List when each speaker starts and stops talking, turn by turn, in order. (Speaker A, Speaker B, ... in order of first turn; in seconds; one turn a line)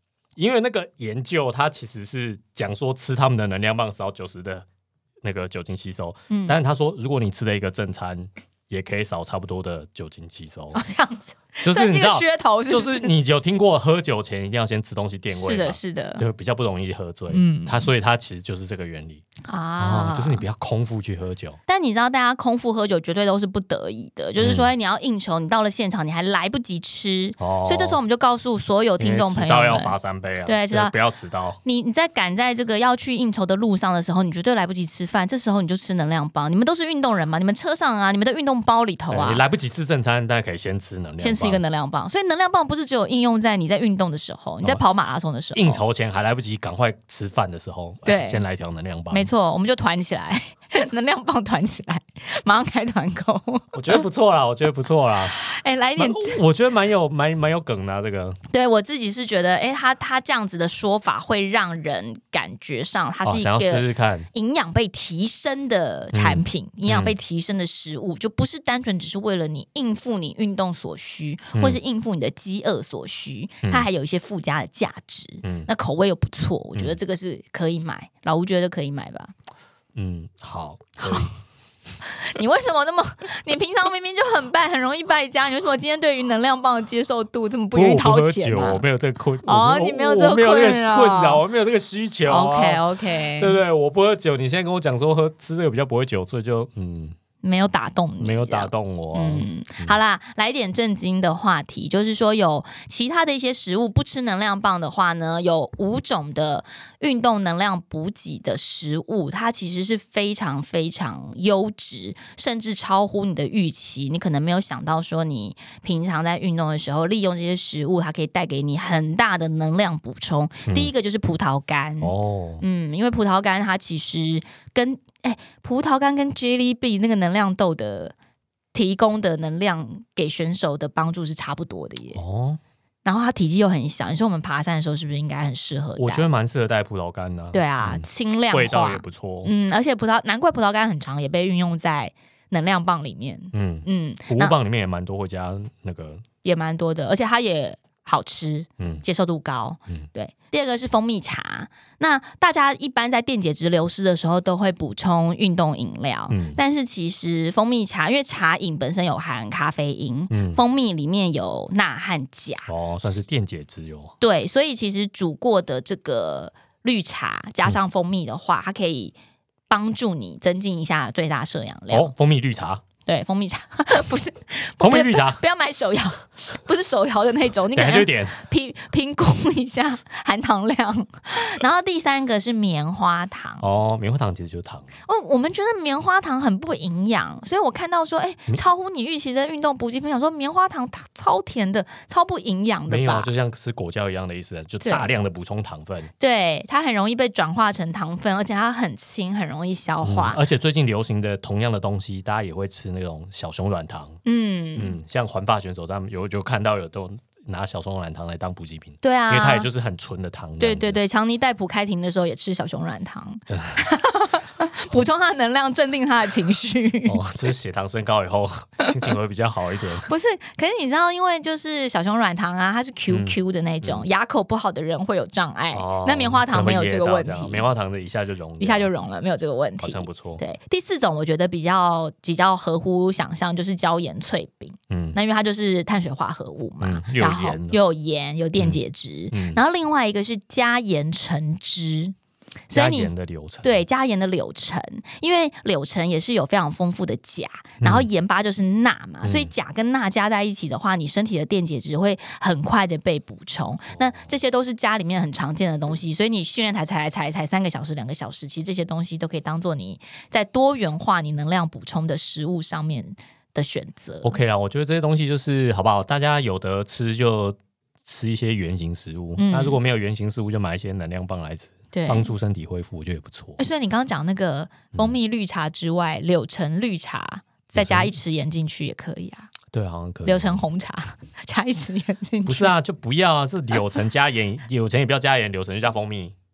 Speaker A: 0.4-4.7
Speaker A: 5.2-10.8
Speaker B: 6.3-6.6
Speaker B: 10.7-13.1
Speaker A: 11.6-19.2
Speaker B: 15.3-16.2
Speaker B: 17.3-17.9
Speaker B: 19.4-20.4
Speaker A: 19.8-21.6
Speaker B: 21.7-30.9
Speaker A: 24.4-24.7
Speaker A: 27.4-28.0
Speaker A: 29.0-31.6
Speaker B: 31.6-39.4
Speaker A: 39.1-41.6
Speaker B: 41.2-45.8
Speaker A: 45.5-49.3
Speaker B: 48.0-48.4
Speaker B: 49.1-54.0
Speaker A: 53.7-55.4
Speaker B: 55.3-56.4
Speaker A: 56.0-58.4
Speaker B: 58.5-79.3
Speaker A: 63.2-64.3
Speaker A: 66.1-67.1
Speaker A: 75.4-75.7
Speaker A: 79.9-81.3
Speaker B: 81.0-81.3
Speaker B: 82.0-88.8
Speaker A: 87.7-92.8
Speaker B: 89.4-91.4
Speaker B: 92.2-93.6
Speaker A: 93.4-97.2
Speaker B: 97.4-128.1
Speaker A: 98.2-100.0
Speaker A: 122.0-122.6
Speaker B: 128.7-132.2
Speaker A: 132.1-132.6
Speaker B: 133.0-136.3
Speaker A: 136.0-139.5
Speaker B: 137.5-144.6
Speaker A: 143.5-146.2
Speaker B: 146.4-162.7
Speaker A: 148.8-149.0
Speaker A: 156.3-156.6
Speaker A: 160.3-160.6
Speaker A: 162.7-164.2
Speaker B: 164.2-169.1
Speaker B: 169.7-172.1
Speaker A: 171.9-172.8
Speaker B: 173.1-183.6
Speaker A: 174.8-175.4
Speaker A: 177.7-178.4
Speaker A: 183.6-184.9
Speaker B: 185.1-193.3
Speaker A: 192.9-196.1
Speaker B: 194.8-195.1
Speaker B: 196.2-200.4
Speaker A: 200.0-204.2
Speaker B: 204.2-204.9
Speaker A: 204.8-211.0
Speaker B: 209.0-209.7
Speaker B: 210.6-217.2
Speaker A: 213.5-213.9
Speaker A: 217.1-220.1
Speaker B: 220.1-227.7
Speaker A: 223.1-224.1
Speaker A: 225.7-228.9
Speaker B: 228.6-242.1
Speaker A: 229.8-230.4
Speaker A: 234.9-235.2
Speaker A: 236.8-237.8
Speaker A: 239.3-239.6
Speaker B: 242.7-243.1
Speaker A: 242.7-243.8
Speaker B: 243.6-264.4
Speaker A: 247.8-248.1
Speaker A: 249.2-249.5
Speaker A: 253.9-254.3
Speaker A: 264.2-273.6
Speaker B: 269.4-269.8
Speaker B: 271.9-272.3
Speaker B: 273.6-279.5
Speaker A: 277.8-278.1
Speaker A: 279.7-280.6
Speaker B: 280.2-282.7
Speaker A: 282.4-286.3